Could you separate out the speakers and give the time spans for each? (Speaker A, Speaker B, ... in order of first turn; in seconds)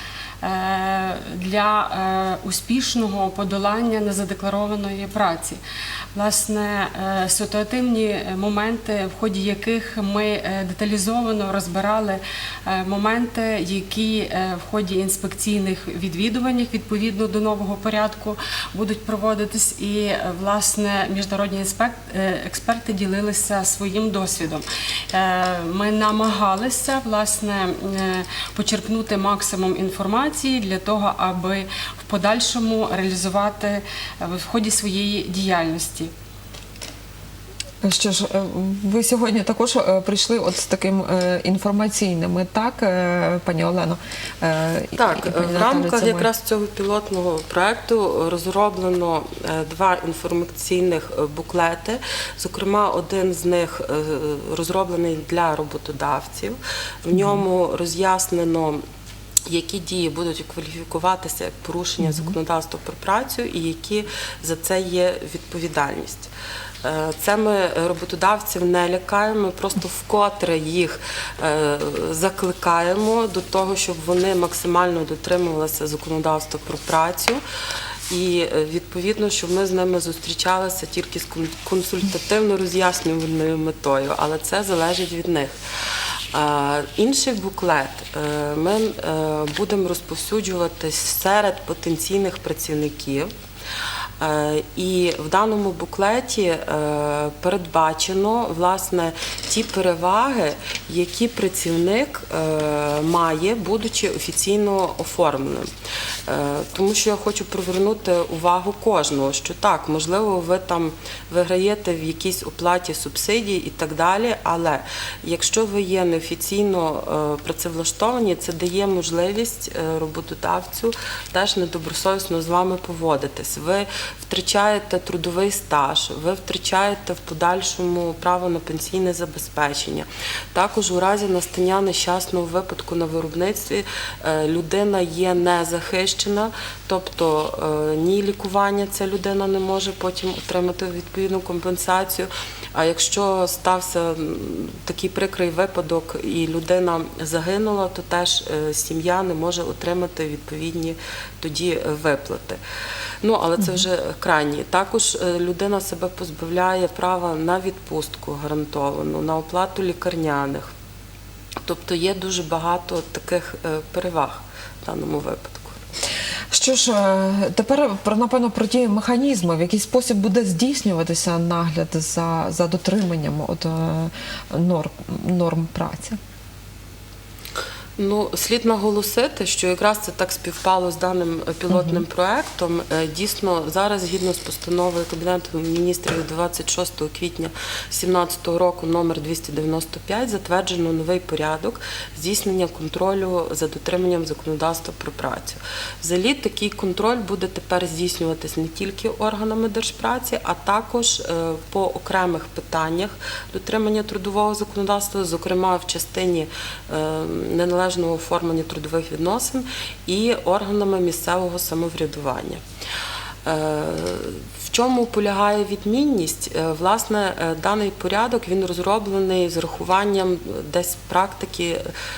Speaker A: 0.4-5.6, 6.1-36.1
Speaker B: 37.8-46.3, 57.1-57.4, 62.0-62.4, 166.5-176.2, 181.7-182.0
Speaker C: 45.0-58.8, 59.5-66.3, 66.8-77.4, 78.1-85.6, 86.3-93.3, 94.2-105.7, 106.3-152.6, 153.2-160.7, 161.6-165.8, 178.0-212.6, 213.4-221.8